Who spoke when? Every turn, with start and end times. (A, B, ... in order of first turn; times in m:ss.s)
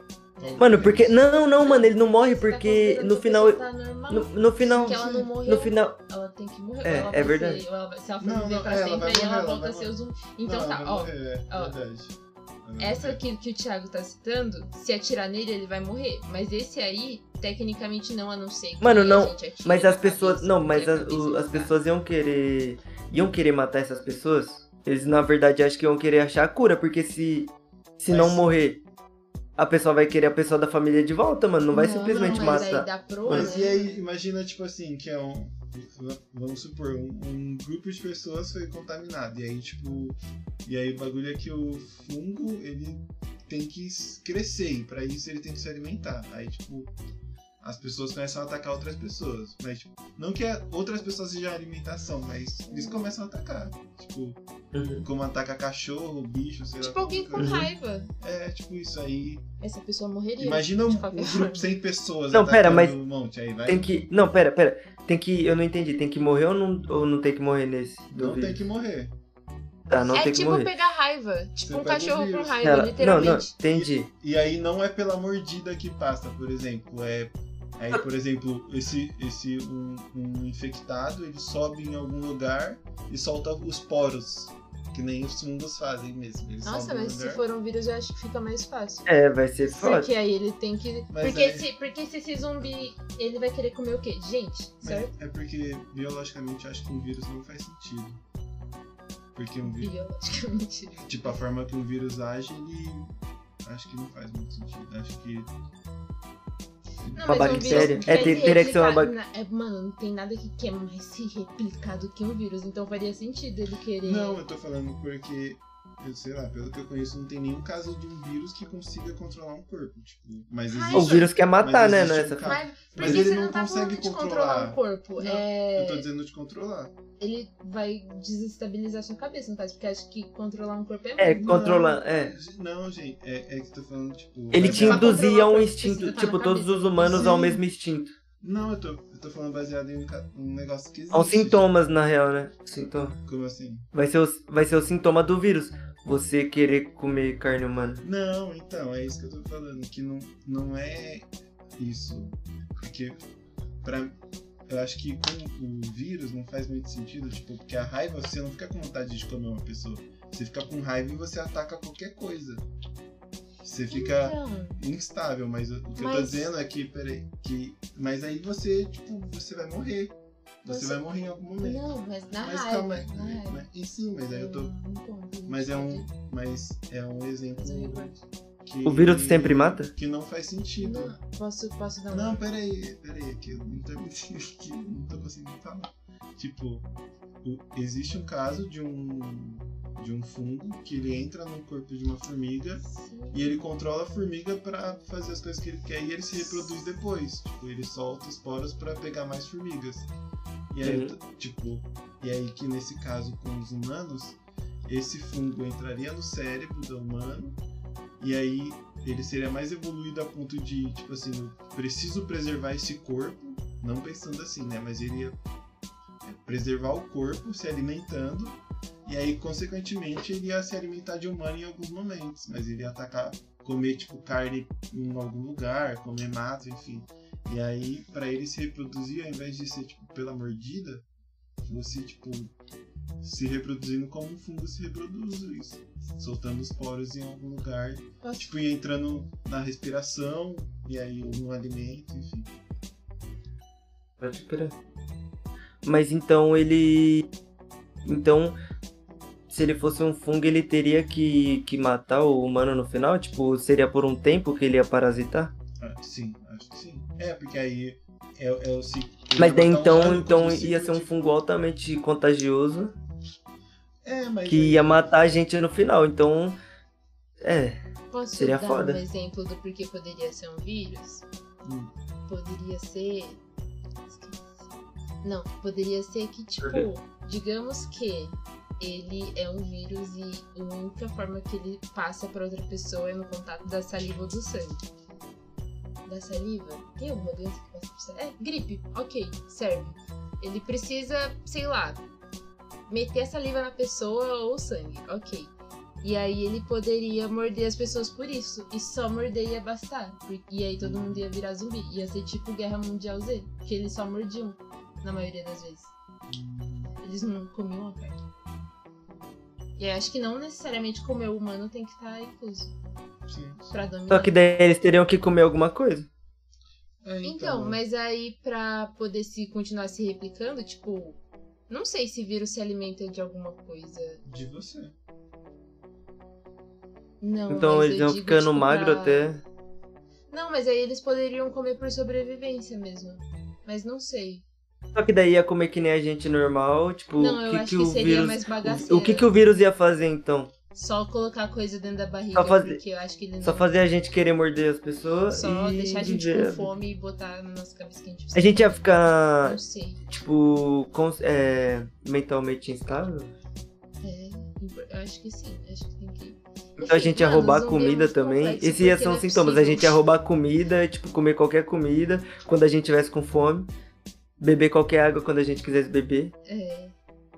0:00.4-0:00.8 A
0:00.4-0:01.2 B
0:00.6-0:06.0 C
0:01.6-0:11.8 A
0:04.6-0:05.3 B
0:06.8-0:07.6 C
0:08.2-0:13.2 B
0:12.8-0:21.7 A
0:18.8-0:28.8 C
0:28.1-0:28.5 B
0:29.6-0:33.5 C
0:31.7-0:33.9 A
0:32.0-0:32.7 B
0:33.2-0:46.9 B
0:47.6-0:54.4 B
0:52.7-0:53.1 A
0:54.7-0:55.0 C
0:55.0-0:57.7 B
0:56.8-0:58.1 A
0:57.4-0:57.7 C
0:58.2-0:59.4 B
0:59.6-1:01.7 A
1:00.4-1:03.9 B
1:02.3-1:03.0 C
1:03.6-1:08.6 C
1:08.1-1:09.1 B
1:09.9-1:10.7 C
1:10.1-1:13.5 A
1:11.6-1:12.9 B
1:12.6-1:14.1 C
1:13.7-1:27.4 B
1:26.6-1:29.1 A
1:29.0-1:30.1 C
1:29.7-1:35.1 A
1:31.1-1:31.7 B
1:34.8-1:38.2 B
1:39.3-1:39.9 B
1:39.7-1:41.1 A
1:41.0-1:45.5 B
1:47.0-1:48.7 B
1:47.1-1:54.4 A
1:47.2-1:49.1 C
1:54.0-2:06.9 B
2:00.7-2:01.3 A
2:00.9-2:03.2 C
2:02.4-2:06.1 A
2:07.2-2:11.9 A
2:11.2-2:12.3 C
2:11.4-2:15.2 B
2:14.5-2:18.1 C
2:14.6-2:17.5 A
2:17.0-2:17.6 B
2:18.4-2:21.6 B
2:21.1-2:23.2 C
2:23.2-2:23.9 B
2:23.9-2:28.0 C
2:28.0-2:33.2 B
2:33.8-2:42.6 B
2:43.6-2:51.9 B
2:43.9-2:44.8 A
2:46.0-2:46.5 A
2:50.6-2:51.0 A
2:51.6-2:53.6 A
2:52.4-2:54.7 B
2:54.3-2:56.1 A
2:55.5-3:01.1 B
2:57.6-2:58.2 A
2:58.8-2:59.9 C
3:00.8-3:02.4 A
3:02.1-3:06.9 B
3:07.4-3:20.1 B
3:12.8-3:13.5 A
3:16.4-3:16.7 A
3:20.7-3:27.6 B
3:20.8-3:21.1 C
3:28.2-3:35.4 B
3:36.2-3:51.0 B
3:51.6-3:52.5 B
3:53.2-4:02.5 B
3:58.2-3:58.5 A
4:04.2-4:04.7 C
4:05.8-4:07.3 C
4:08.0-4:08.6 C
4:09.5-4:15.5 C
4:15.8-4:21.2 B
4:19.4-4:22.9 C
4:24.0-4:25.1 B
4:24.5-4:26.6 C
4:27.4-4:27.8 C
4:28.1-4:31.2 A
4:28.4-4:29.0 C
4:31.6-4:31.9 B
4:32.3-4:33.4 A
4:34.1-4:34.7 A
4:35.2-4:44.8 A
4:46.0-4:52.0 A
4:52.9-5:05.9 A
5:00.8-5:01.3 B
5:06.3-5:06.9 B
5:07.0-5:08.2 A
5:09.8-5:12.7 A
5:13.2-5:13.7 B
5:13.7-5:14.4 A
5:14.1-5:16.1 C
5:17.0-5:17.8 B
5:17.2-5:21.2 A
5:21.7-5:24.2 A
5:24.2-5:24.9 B
5:27.2-5:29.3 A
5:27.5-5:29.4 C
5:30.3-5:34.4 A
5:34.9-5:40.5 C
5:37.2-5:39.3 A
5:40.7-5:43.7 A
5:42.3-5:42.8 C
5:43.4-5:46.7 C
5:45.3-5:50.0 A
5:48.3-5:53.3 C
5:54.0-5:59.9 A
5:56.8-6:03.7 C
6:04.4-6:06.3 C
6:06.4-6:06.9 A